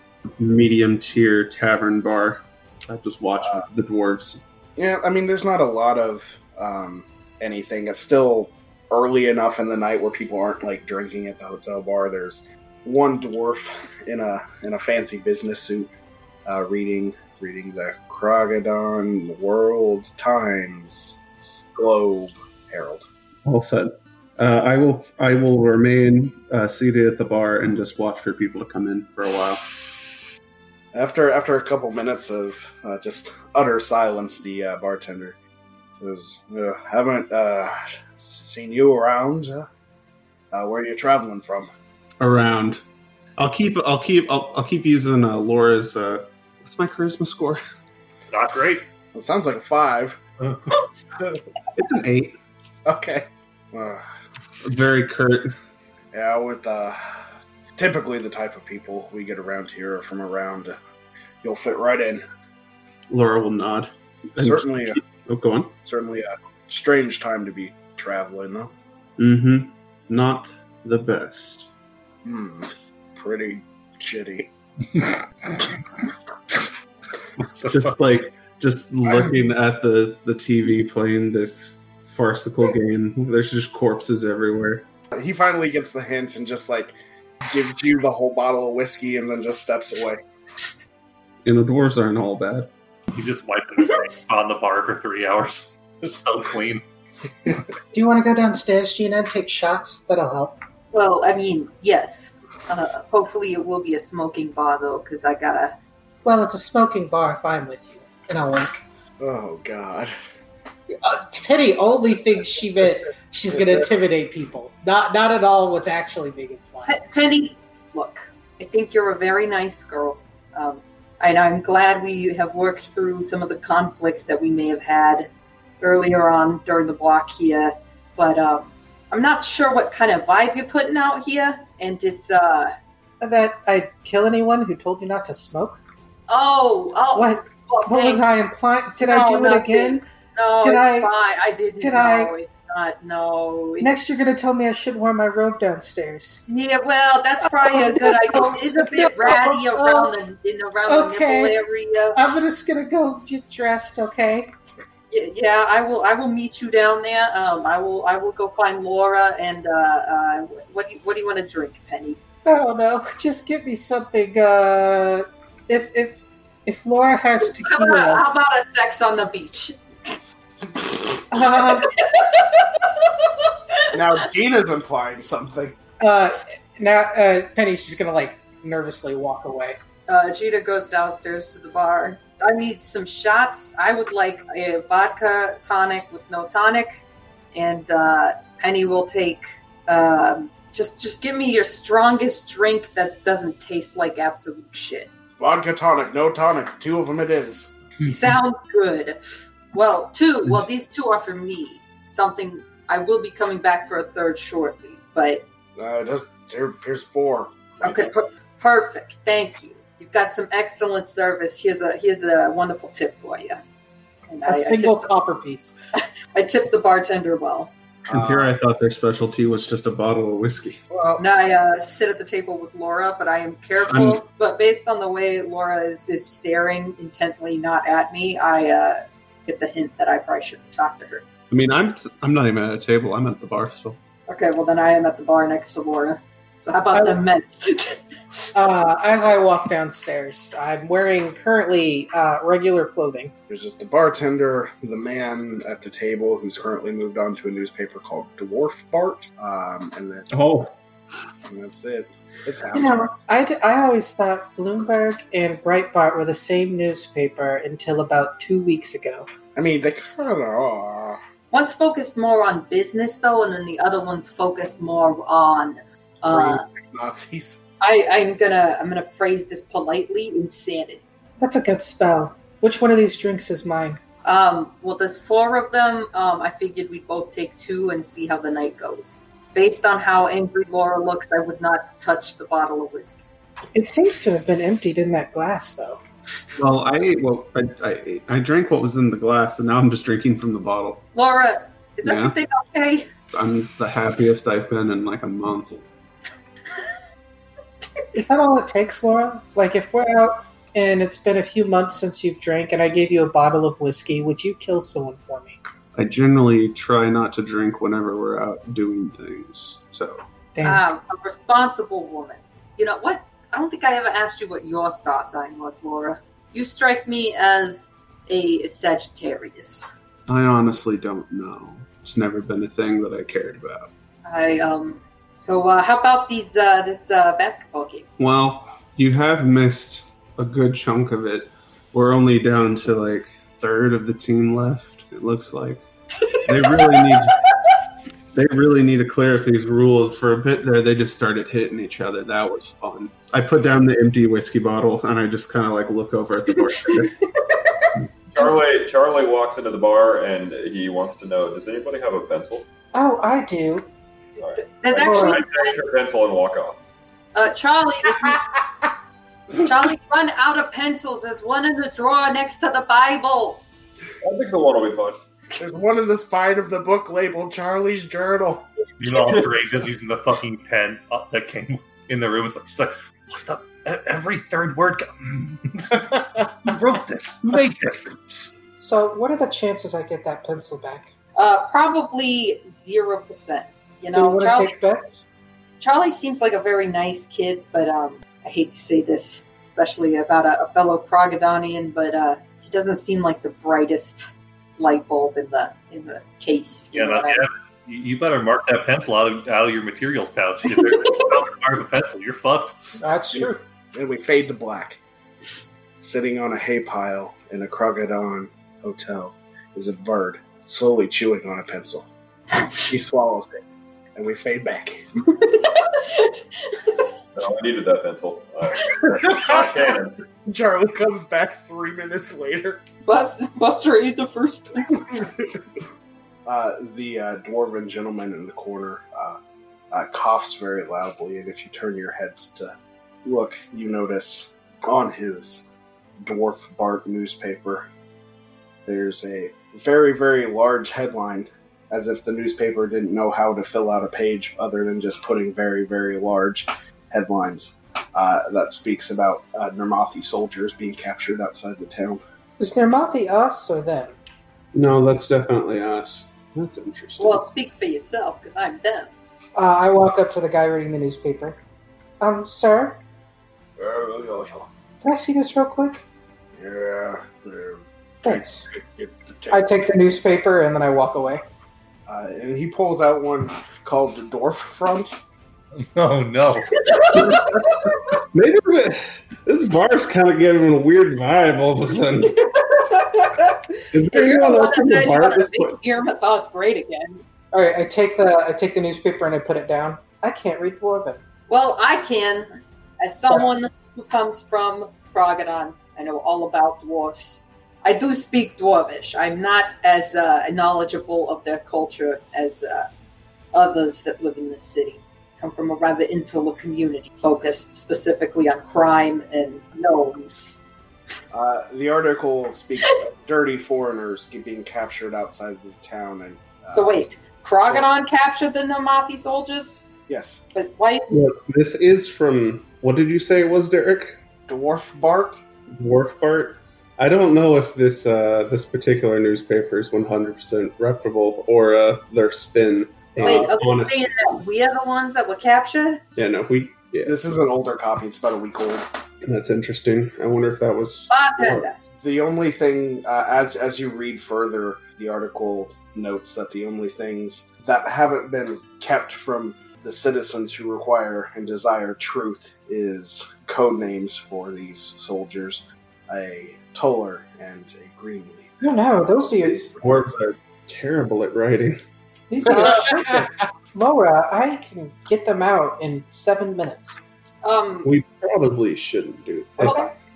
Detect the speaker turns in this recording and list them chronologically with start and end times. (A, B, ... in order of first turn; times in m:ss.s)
0:00.4-0:04.4 A
0:04.8-0:15.9 B
0:16.4-0:23.0 B
0:23.4-0:30.1 A
0:30.9-0:35.4 B
0:36.0-0:39.7 B
0:40.5-0:41.7 B
0:42.2-0:42.8 A
0:43.4-0:47.6 A
0:48.3-0:48.8 C
0:49.1-0:50.2 B
0:51.8-0:52.4 A
0:52.8-0:54.0 B
0:54.6-0:55.5 A
0:56.1-0:57.0 B
0:57.8-1:00.8 B
1:01.4-1:02.2 B
1:03.1-1:05.7 A
1:04.4-1:05.0 B
1:05.8-1:08.7 B
1:09.2-1:11.7 A
1:12.2-1:14.5 B
1:17.6-1:24.8 A
1:25.1-1:26.9 B
1:27.4-1:30.2 B
1:31.4-1:32.7 A
1:33.1-1:36.8 C
1:37.9-1:40.6 D
1:40.9-1:45.8 E
1:46.2-1:48.8 D
1:49.2-1:50.1 B
1:51.0-1:57.0 D
1:56.8-2:05.3 E
2:05.8-2:12.7 E
2:13.2-2:15.8 D
2:16.3-2:18.2 E
2:17.1-2:20.0 D
2:19.0-2:24.0 E
2:20.6-2:21.1 D
2:21.8-2:22.3 D
2:23.8-2:26.4 D
2:26.5-2:32.4 E
2:27.4-2:30.1 D
2:30.9-2:31.6 D
2:32.1-2:34.5 D
2:35.1-2:42.2 E
2:42.4-2:48.2 D
2:47.6-2:50.1 E
2:51.3-2:51.9 D
2:51.8-2:53.5 E
2:53.9-2:55.8 B
2:56.0-2:59.8 D
3:00.1-3:07.0 E
3:07.5-3:15.1 E
3:15.4-3:17.7 B
3:18.0-3:19.2 E
3:19.7-3:25.4 E
3:25.8-3:28.1 B
3:27.8-3:33.6 E
3:34.3-3:35.0 E
3:34.4-3:35.8 D
3:36.3-3:37.7 E
3:38.1-3:40.8 A
3:38.1-3:38.5 B
3:40.9-3:41.2 B
3:41.2-3:51.2 E
3:43.9-3:44.2 A
3:51.5-3:54.0 A
3:54.3-3:58.0 E
3:56.9-3:57.2 D
3:58.5-4:03.3 D
4:03.5-4:10.3 B
4:10.3-4:10.7 A
4:11.4-4:13.1 B
4:12.7-4:19.3 D
4:19.5-4:21.2 B
4:21.5-4:26.6 E
4:26.3-4:27.6 B
4:27.8-4:31.0 E
4:31.4-4:34.0 D
4:34.2-4:43.2 E
4:43.7-4:46.0 D
4:46.6-4:51.0 A
4:51.1-4:53.1 E
4:52.0-4:52.3 A
4:53.3-4:55.8 A
4:58.1-5:05.6 D
5:05.9-5:10.2 A
5:10.5-5:10.8 D
5:10.6-5:19.9 E
5:20.3-5:23.9 A
5:24.2-5:28.1 E
5:28.2-5:35.8 A
5:36.3-5:36.9 E
5:36.4-5:37.4 A
5:38.3-5:47.2 A
5:48.3-5:52.6 F
5:52.9-5:53.9 D
5:54.4-5:56.8 F
5:54.6-5:55.8 E
5:54.9-5:55.4 D
5:57.3-5:58.4 E
5:59.6-6:03.6 E
6:04.2-6:05.2 F
6:05.6-6:08.7 B
6:09.0-6:16.1 C
6:16.6-6:18.2 C
6:18.8-6:21.1 D
6:21.4-6:24.8 E
6:24.1-6:25.2 D
6:25.8-6:37.4 E
6:36.9-6:42.8 C
6:43.0-6:43.6 D
6:43.3-6:45.0 B
6:46.0-6:52.1 B
6:52.7-6:53.6 B
6:54.1-6:55.0 B
6:55.4-6:57.0 E
6:57.3-7:00.2 F
6:59.3-6:59.6 B
7:00.4-7:02.8 B
7:03.0-7:05.3 E
7:06.4-7:09.4 B
7:09.9-7:15.7 B
7:16.2-7:17.9 B
7:18.8-7:32.2 B
7:32.6-7:34.2 D
7:34.7-7:37.4 A
7:37.2-7:39.1 E
7:39.6-7:41.6 D
7:42.2-7:43.0 D
7:43.8-7:44.7 B
7:45.0-7:46.0 D
7:46.5-7:49.7 B
7:48.2-7:48.7 D
7:49.5-7:51.4 D
7:52.1-7:55.2 B
7:55.8-7:57.5 C
7:56.9-7:57.9 E
7:58.3-8:02.3 A
8:02.4-8:07.2 E
8:03.9-8:05.8 A
8:07.5-8:11.2 D
8:11.5-8:22.9 E
8:23.5-8:30.6 E
8:31.3-8:37.0 B
8:36.7-8:39.9 E
8:40.1-8:40.4 B
8:40.5-8:41.1 E
8:41.1-8:44.2 A
8:44.5-8:45.4 B
8:45.7-8:54.1 A
8:53.2-8:53.5 B
8:53.2-8:56.0 E
8:56.1-8:57.5 A
8:57.0-8:58.8 B
8:59.2-9:01.6 A
9:01.1-9:01.8 E
9:02.0-9:18.6 B
9:18.6-9:19.7 D
9:19.5-9:21.8 A
9:22.3-9:27.0 D
9:22.4-9:23.3 A
9:22.5-9:22.8 E
9:27.4-9:27.9 E
9:27.8-9:29.8 A
9:29.6-9:29.8 E
9:29.6-9:29.9 D